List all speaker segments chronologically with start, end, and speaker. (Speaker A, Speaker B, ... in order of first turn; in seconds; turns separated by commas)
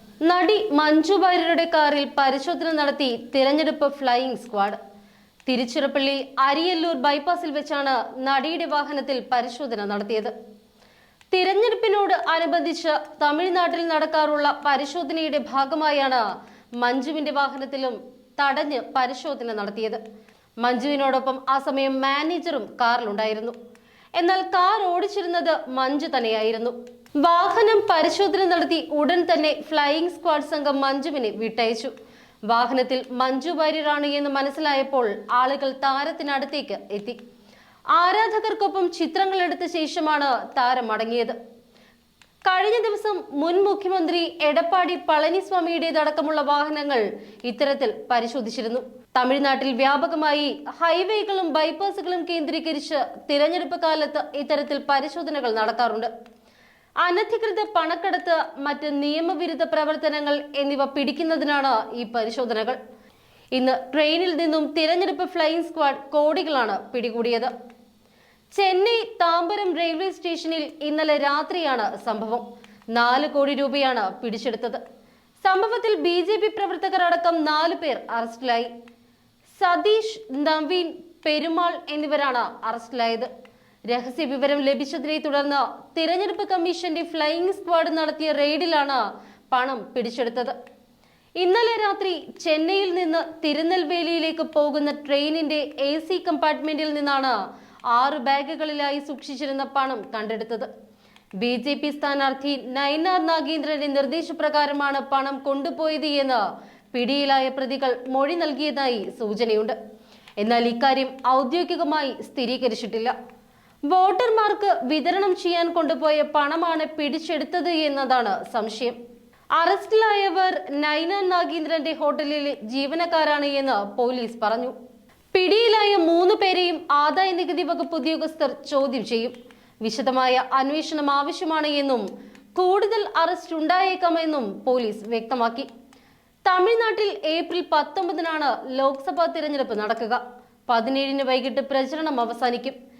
Speaker A: 0.2-4.8, Speaker A: 5.5-10.3, Speaker A: 11.3-16.2, Speaker A: 16.8-20.0, Speaker A: 20.6-23.6, Speaker A: 24.2-31.9, Speaker A: 32.5-37.2, Speaker A: 37.9-41.4, Speaker A: 42.5-56.1, Speaker A: 57.0-62.8, Speaker A: 63.5-67.5, Speaker A: 68.5-74.8, Speaker A: 75.4-78.7, Speaker A: 79.5-83.3, Speaker A: 83.9-90.5, Speaker A: 91.4-97.3, Speaker A: 97.9-100.7, Speaker A: 101.4-106.4, Speaker A: 106.9-109.8, Speaker A: 110.4-113.1, Speaker A: 113.9-119.0, Speaker A: 119.6-124.7, Speaker A: 125.3-132.0, Speaker A: 132.6-135.7, Speaker A: 136.5-142.8